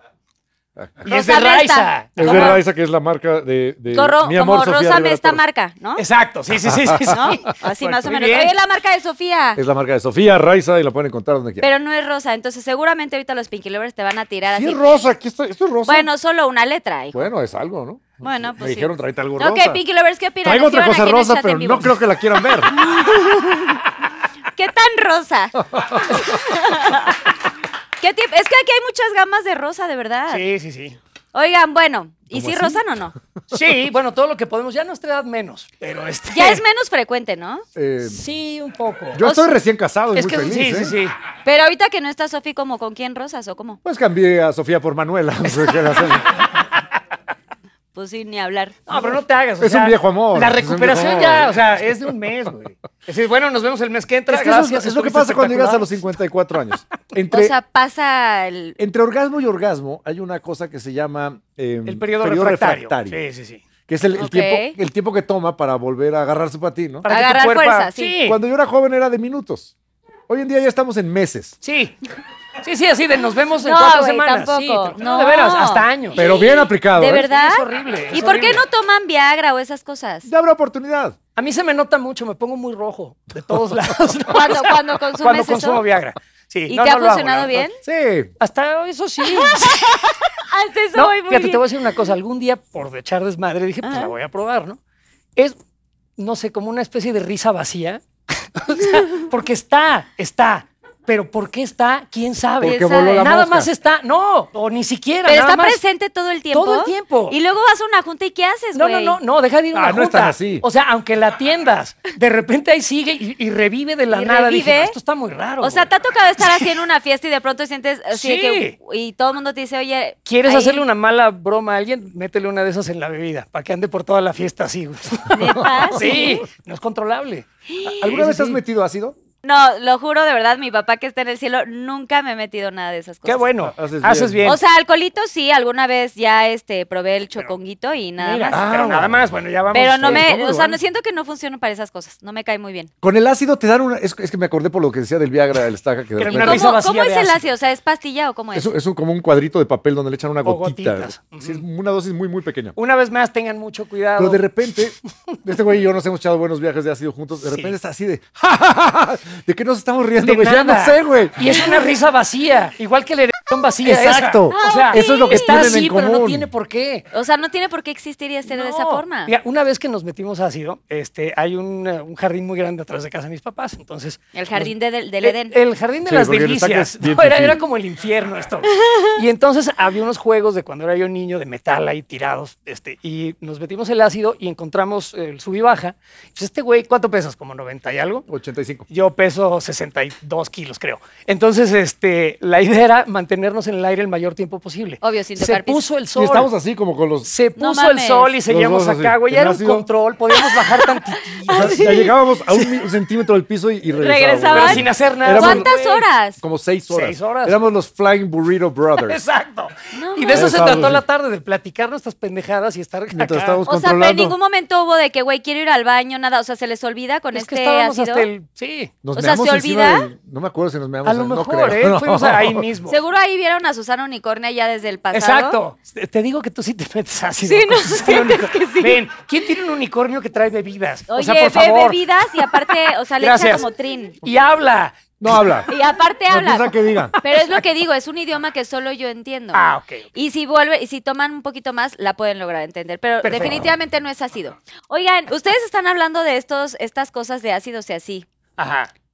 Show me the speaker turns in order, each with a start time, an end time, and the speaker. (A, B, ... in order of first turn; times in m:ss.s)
0:00.8-0:01.1 A
0:01.0-0:02.6 B
0:01.1-0:02.6 C
0:02.2-0:05.4 A
0:03.9-0:06.0 C
0:06.0-0:08.6 B
0:06.6-0:07.2 A
0:07.1-0:09.6 C
0:09.6-0:11.7 A
0:11.6-0:14.8 C
0:14.5-0:16.1 A
0:15.9-0:17.3 C
0:17.1-0:19.8 A
0:18.2-0:22.0 C
0:20.4-0:22.8 A
0:22.7-0:23.9 C
0:24.6-0:27.2 C
0:25.7-0:26.2 A
0:28.0-0:30.4 C
0:30.3-0:31.0 B
0:31.3-0:33.1 C
0:32.3-0:32.8 A
0:33.5-0:36.6 B
0:36.3-0:37.6 C
0:37.8-0:38.2 A
0:38.0-0:39.2 B
0:39.1-0:41.0 A
0:39.2-0:39.5 C
0:40.1-0:41.2 B
0:41.4-0:43.8 C
0:43.8-0:46.4 A
0:48.0-0:48.8 C
0:48.9-0:55.9 B
0:49.6-0:51.6 A
0:54.3-0:57.6 A
0:57.3-0:58.8 C
0:58.8-1:03.2 A
1:01.9-1:03.6 B
1:03.9-1:07.1 A
1:04.2-1:04.8 C
1:07.0-1:08.4 B
1:07.1-1:08.2 C
1:08.2-1:09.7 A
1:10.3-1:11.6 A
1:11.6-1:12.0 B
1:12.6-1:16.2 B
1:13.6-1:20.3 C
1:16.2-1:17.3 A
1:17.3-1:18.6 B
1:20.3-1:21.2 A
1:21.4-1:27.7 B
1:24.3-1:25.8 C
1:26.7-1:27.8 C
1:27.8-1:28.3 A
1:28.4-1:30.0 B
1:29.3-1:31.6 C
1:30.9-1:34.8 B
1:33.8-1:34.1 C
1:36.2-1:45.8 B
1:42.6-1:43.7 A
1:42.6-1:43.2 C
1:45.3-1:49.2 C
1:46.5-1:47.4 B
1:48.8-1:56.7 B
1:49.7-1:50.6 A
1:54.1-1:55.0 C
1:55.6-2:00.8 C
1:58.1-1:58.8 B
2:00.3-2:07.5 B
2:05.3-2:06.4 C
2:05.6-2:06.3 A
2:07.7-2:08.1 C
2:08.0-2:09.2 A
2:08.0-2:08.6 B
2:09.4-2:13.5 C
2:13.2-2:14.6 B
2:13.6-2:14.6 A
2:14.4-2:18.6 C
2:18.2-2:20.3 B
2:18.5-2:20.8 A
2:19.7-2:22.9 C
2:23.0-2:26.7 A
2:26.2-2:27.4 B
2:26.3-2:28.7 C
2:28.5-2:32.8 A
2:30.4-2:31.6 B
2:32.8-2:34.4 B
2:34.2-2:41.7 A
2:37.5-2:37.8 B
2:40.2-2:47.1 B
2:43.8-2:46.5 A
2:44.5-2:45.8 C
2:47.1-2:49.3 C
2:48.5-3:08.3 B
2:54.4-2:55.6 C
2:56.1-2:57.6 A
3:08.3-3:08.9 A
3:08.9-3:16.5 B
3:15.0-3:15.8 C
3:16.2-3:17.3 A
3:17.2-3:22.1 B
3:17.6-3:18.4 C
3:18.5-3:19.9 A
3:21.4-3:22.1 C
3:21.5-3:25.7 A
3:24.0-3:26.4 C
3:24.5-3:26.0 B
3:26.4-3:29.2 A
3:26.9-3:27.6 B
3:29.1-3:33.6 B
3:29.9-3:30.8 C
3:30.3-3:31.0 A
3:33.1-3:34.4 A
3:33.7-3:38.3 C
3:37.3-3:39.0 B
3:39.0-3:42.7 A
3:39.1-3:40.1 C
3:41.0-3:43.0 B
3:42.9-3:45.6 C
3:45.1-3:52.0 B
3:47.4-3:49.0 C
3:51.1-3:54.2 C
3:53.2-3:53.7 B
3:54.2-3:55.5 B
3:55.2-3:55.7 A
3:55.7-3:59.6 C
3:56.3-3:57.2 A
3:57.2-3:57.6 B
3:59.5-4:00.1 B
4:00.2-4:08.3 C
4:03.2-4:03.7 B
4:08.6-4:08.9 B